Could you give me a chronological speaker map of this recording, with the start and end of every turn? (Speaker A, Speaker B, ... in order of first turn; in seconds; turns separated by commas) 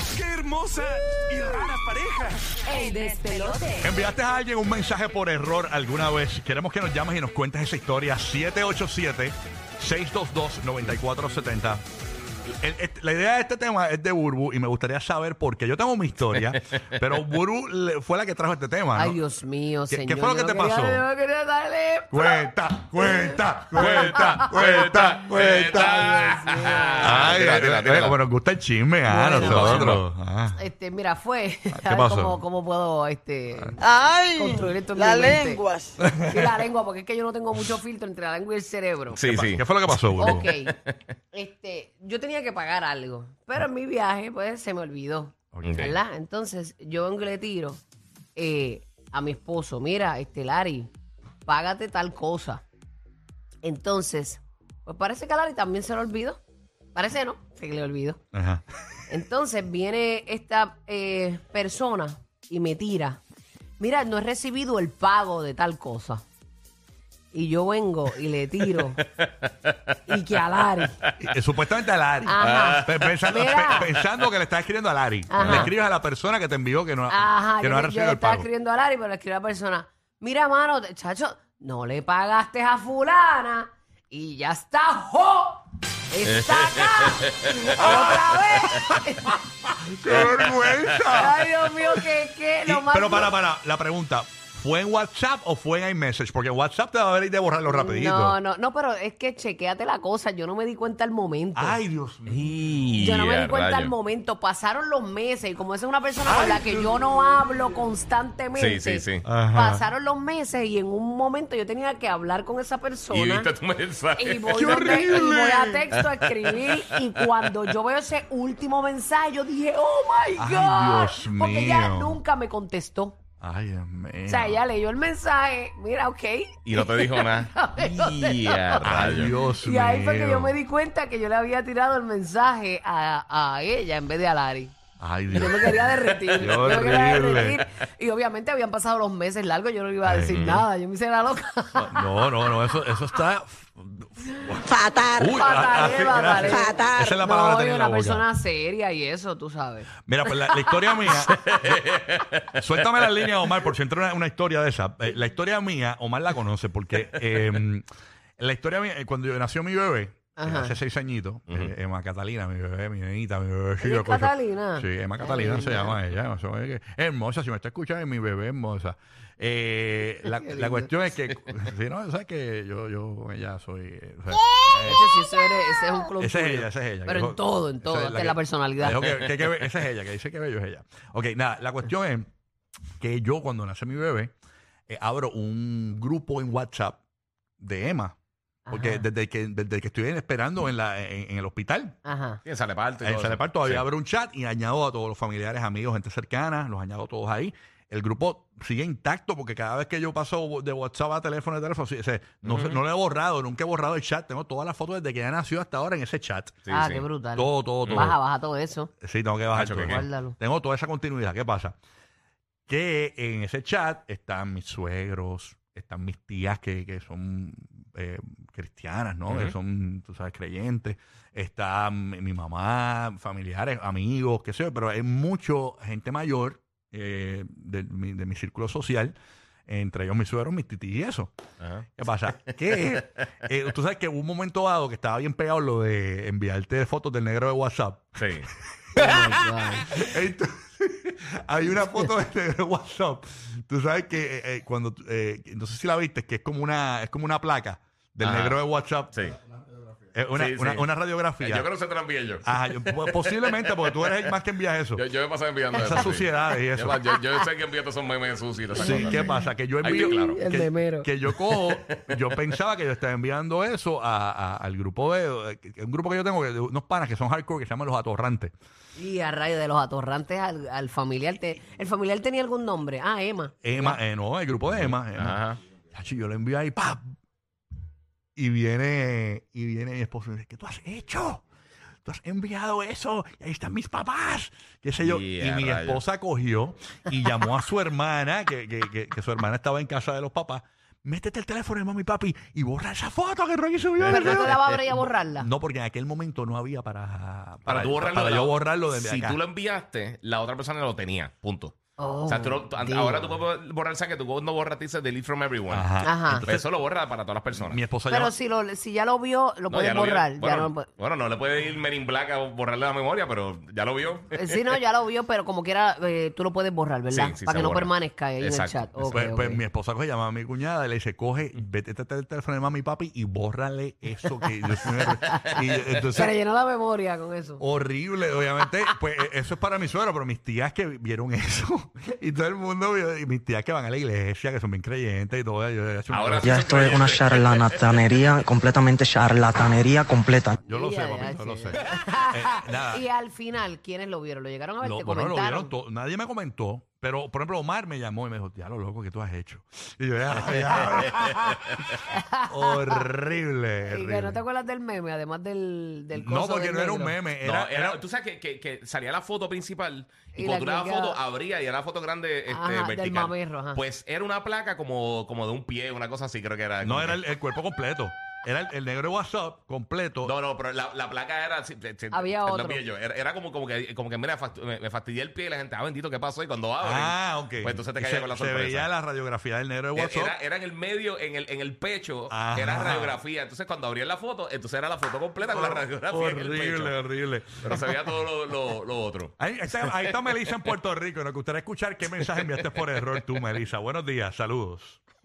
Speaker A: 0.1-3.2, Speaker B: 2.7-3.8, Speaker C: 2.8-3.5, Speaker D: 3.8-11.8, Speaker D: 12.4-19.2, Speaker C: 18.9-24.8, Speaker D: 19.9-21.1, Speaker D: 22.1-26.1, Speaker E: 23.7-28.2, Speaker C: 25.7-27.3, Speaker D: 27.0-30.6, Speaker C: 29.1-29.9, Speaker E: 29.4-30.0, Speaker C: 30.6-35.6, Speaker D: 31.7-32.4, Speaker B: 33.8-36.0, Speaker D: 36.0-36.5, Speaker C: 36.2-39.2, Speaker E: 39.1-40.9, Speaker D: 39.2-40.5, Speaker C: 40.1-40.7, Speaker C: 41.3-47.8, Speaker D: 45.5-45.8, Speaker E: 45.6-46.0, Speaker C: 48.3-50.9, Speaker C: 51.5-52.6, Speaker C: 53.6-56.4, Speaker C: 56.9-58.2, Speaker D: 58.3-58.6, Speaker C: 59.1-63.2, Speaker C: 63.8-66.2, Speaker C: 67.3-69.0, Speaker E: 69.0-70.1, Speaker C: 70.1-71.0, Speaker D: 71.2-78.5, Speaker C: 72.2-73.9, Speaker E: 72.4-74.0, Speaker C: 75.3-75.7, Speaker E: 75.4-75.7, Speaker C: 77.1-89.4, Speaker E: 86.2-87.7, Speaker D: 87.7-89.0, Speaker D: 89.7-91.7, Speaker E: 90.1-91.0, Speaker C: 91.0-93.3, Speaker D: 92.7-98.4, Speaker C: 97.7-101.8, Speaker D: 101.5-102.5, Speaker E: 102.3-103.9, Speaker C: 103.0-113.5, Speaker D: 106.2-107.0, Speaker E: 108.5-109.3, Speaker D: 109.2-109.8, Speaker E: 113.1-115.1, Speaker C: 114.2-123.2, Speaker D: 114.5-115.9, Speaker E: 115.9-116.9, Speaker D: 120.4-122.2, Speaker D: 123.4-124.6, Speaker C: 124.3-134.7, Speaker E: 126.6-129.3, Speaker D: 128.8-130.6, Speaker D: 135.0-137.6, Speaker C: 135.3-142.5, Speaker E: 136.4-137.0, Speaker D: 140.0-140.6, Speaker D: 141.8-148.3, Speaker B: 144.6-145.3, Speaker F: 144.9-145.4, Speaker C: 145.3-151.0, Speaker B: 146.1-147.1, Speaker D: 150.1-151.8, Speaker E: 151.1-153.5, Speaker D: 152.6-157.8, Speaker D: 158.4-175.3, Speaker C: 160.3-160.7, Speaker C: 163.8-165.9, Speaker C: 170.3-170.9, Speaker C: 174.8-179.1, Speaker D: 176.2-182.3, Speaker E: 179.2-179.7, Speaker D: 183.0-184.3, Speaker D: 184.9-187.0, Speaker D: 187.6-188.2, Speaker C: 188.7-189.1, Speaker D: 188.7-191.9, Speaker C: 192.0-192.4, Speaker E: 192.4-193.8, Speaker D: 193.0-206.7, Speaker E: 202.4-202.8, Speaker E: 206.7-207.1, Speaker C: 206.7-208.9, Speaker D: 207.3-208.2, Speaker E: 207.8-208.1, Speaker D: 209.0-211.8, Speaker E: 209.5-210.0, Speaker C: 209.8-210.3, Speaker D: 212.7-229.1, Speaker E: 219.3-219.5, Speaker D: 229.7-231.3, Speaker E: 231.6-231.9, Speaker D: 231.9-249.2, Speaker E: 238.2-238.5, Speaker C: 238.9-239.9, Speaker E: 248.2-248.6, Speaker E: 249.1-249.4, Speaker D: 250.1-251.7, Speaker E: 250.3-250.9, Speaker E: 251.4-254.3, Speaker D: 252.4-255.0, Speaker E: 254.9-259.3, Speaker D: 255.7-257.0, Speaker D: 258.7-268.5, Speaker C: 258.8-259.4, Speaker E: 259.8-260.4, Speaker C: 260.2-261.1, Speaker E: 261.5-261.9, Speaker C: 268.9-274.0, Speaker D: 273.6-275.4, Speaker E: 274.7-275.6, Speaker D: 275.9-277.0, Speaker D: 278.4-281.4, Speaker D: 282.0-299.4, Speaker E: 285.0-286.0, Speaker C: 294.1-295.5, Speaker E: 294.1-294.6, Speaker E: 297.7-301.8, Speaker C: 302.0-303.4, Speaker E: 302.3-307.8, Speaker D: 305.7-306.6, Speaker C: 306.0-306.5, Speaker D: 307.5-308.3, Speaker C: 308.1-310.9, Speaker E: 309.7-314.6, Speaker C: 314.3-319.6, Speaker E: 317.1-318.9, Speaker D: 319.0-326.4, Speaker C: 325.0-325.5, Speaker C: 326.1-327.6, Speaker D: 327.6-336.9, Speaker E: 336.1-337.9, Speaker F: 336.4-340.6, Speaker D: 340.6-343.0, Speaker C: 340.7-345.7, Speaker D: 344.8-351.6, Speaker E: 350.3-351.9, Speaker C: 351.1-351.4, Speaker C: 352.1-353.1, Speaker D: 352.5-354.4, Speaker C: 353.9-357.2, Speaker D: 356.1-358.0, Speaker E: 357.4-367.2, Speaker C: 360.3-361.2, Speaker C: 362.5-363.8, Speaker D: 366.8-370.3, Speaker E: 370.2-378.9, Speaker C: 372.1-372.8, Speaker D: 376.8-380.3, Speaker E: 379.9-387.0, Speaker D: 382.3-383.1, Speaker D: 385.5-387.8, Speaker E: 387.6-390.7, Speaker D: 389.4-395.0, Speaker E: 392.2-392.9